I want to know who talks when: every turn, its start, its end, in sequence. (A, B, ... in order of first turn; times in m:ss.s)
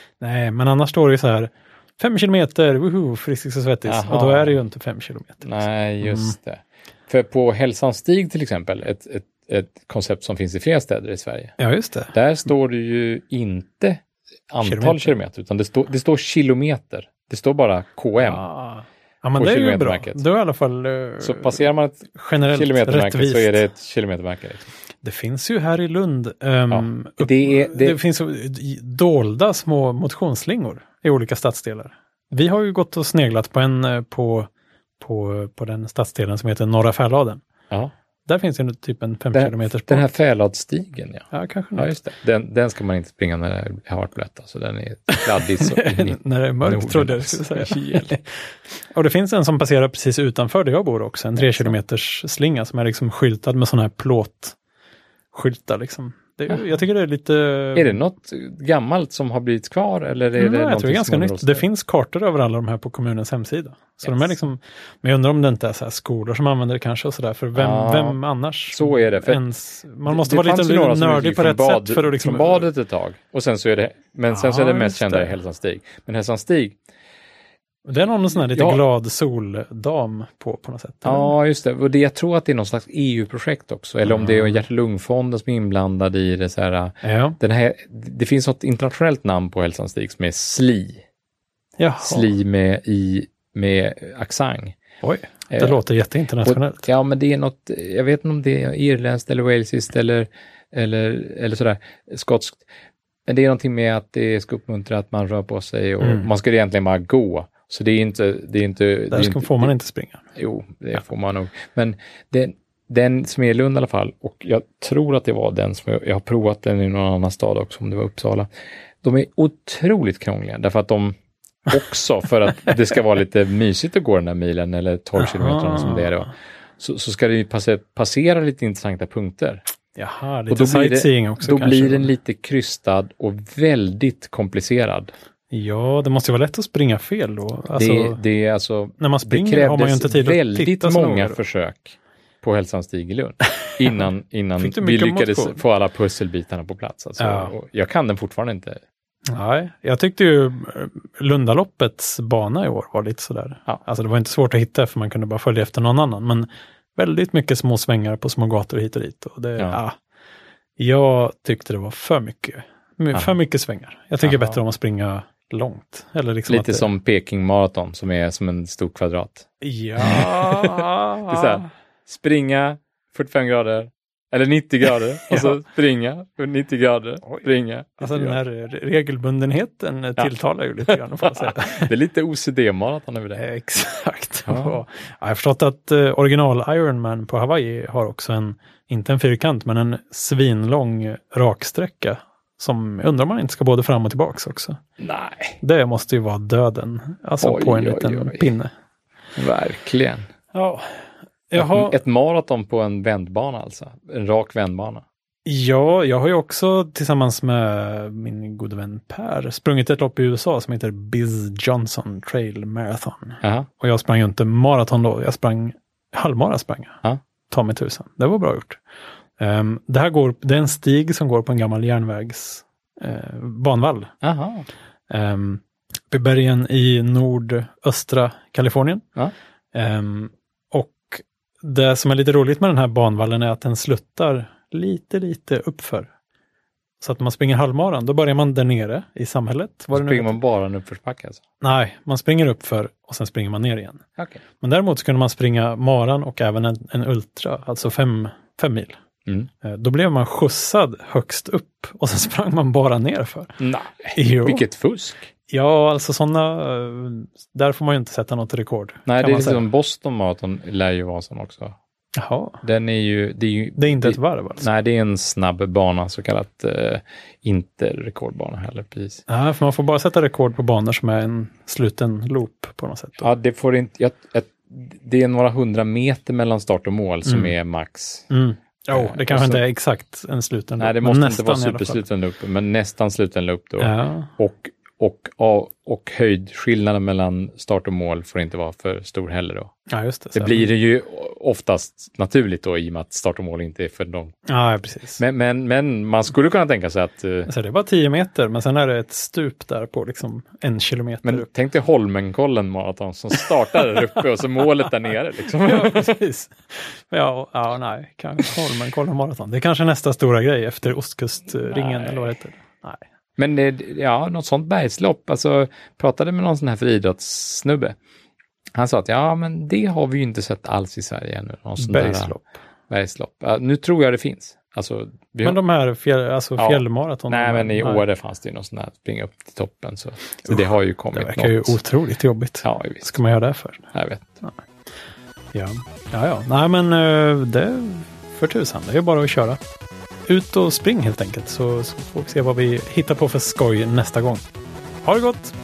0:00.2-0:05.4 A
0:03.9-0:04.6 B
0:05.4-0:11.6 B
0:06.0-0:06.4 A
0:11.6-0:12.1 A
0:12.1-0:18.4 B
0:14.6-0:15.1 A
0:18.2-0:23.6 A
0:19.3-0:20.2 B
0:21.2-0:24.7 B
0:25.0-0:37.4 A
0:26.7-0:28.0 B
0:38.2-0:40.0 A
0:39.3-0:48.2 B
0:41.3-0:41.9 A
0:45.1-0:48.2 A
0:48.9-0:54.6 A
0:51.4-0:51.7 B
0:55.3-0:58.0 A
0:57.7-1:01.6 B
1:00.4-1:12.7 A
1:04.0-1:04.4 B
1:07.5-1:08.2 B
1:08.7-1:09.4 B
1:10.1-1:16.8 B
1:14.3-1:15.4 A
1:17.8-1:21.3 A
1:18.5-1:18.8 B
1:21.0-1:31.0 B
1:24.0-1:24.6 A
1:27.0-1:27.4 A
1:31.8-1:32.3 A
1:32.0-1:34.8 B
1:35.0-1:36.8 A
1:35.5-1:35.8 B
1:36.4-1:42.6 B
1:43.3-1:49.7 B
1:46.0-1:46.3 A
1:49.1-1:50.2 A
1:50.3-1:58.5 B
1:59.0-2:01.2 B
2:01.7-2:09.6 B
2:05.2-2:06.3 A
2:10.0-2:12.1 A
2:10.5-2:15.1 B
2:15.5-2:18.2 A
2:17.8-2:28.8 B
2:19.0-2:21.4 A
2:24.6-2:25.6 A
2:27.2-2:27.5 A
2:29.3-2:39.9 A
2:40.8-2:46.9 A
2:44.2-2:44.6 B
2:46.5-2:49.5 B
2:49.6-2:51.7 A
2:50.0-2:58.4 B
2:55.3-2:55.6 A
2:58.0-3:01.9 A
3:00.9-3:03.4 B
3:03.4-3:14.8 A
3:04.5-3:04.8 B
3:15.0-3:15.6 B
3:15.6-3:18.7 A
3:17.4-3:18.5 B
3:19.4-3:20.2 B
3:20.5-3:20.8 A
3:21.5-3:22.0 A
3:21.6-3:25.0 B
3:25.4-3:38.8 A
3:33.4-3:33.7 B
3:39.4-3:44.1 A
3:44.2-3:44.6 B
3:45.1-3:49.0 A
3:49.7-3:56.1 A
3:57.0-4:00.4 A
3:59.9-4:01.4 B
4:01.6-4:04.0 A
4:04.6-4:08.9 A
4:09.6-4:13.6 A
4:13.6-4:15.3 B
4:14.1-4:14.6 A
4:15.5-4:19.6 A
4:19.0-4:21.8 B
4:22.2-4:22.6 A
4:22.6-4:29.2 B
4:23.8-4:24.6 A
4:29.3-4:33.3 A
4:33.2-4:38.3 B
4:37.2-4:37.5 A
4:38.3-4:42.0 A
4:38.9-4:39.6 B
4:40.8-4:49.7 B
4:43.8-4:44.3 A
4:49.9-4:50.7 A
4:50.3-4:54.3 B
4:54.5-4:55.2 A
4:55.2-4:57.5 B
4:57.5-5:01.4 A
5:01.2-5:06.2 B
5:05.6-5:13.0 A
5:11.7-5:12.4 B
5:13.4-5:18.0 B
5:18.7-5:25.6 B
5:21.8-5:22.4 A
5:25.4-5:28.0 A
5:26.6-5:31.8 B
5:30.5-5:33.9 A
5:32.6-5:33.1 B
5:33.9-5:34.4 B
5:35.5-5:39.6 A
5:40.3-5:44.4 A
5:45.0-5:45.5 A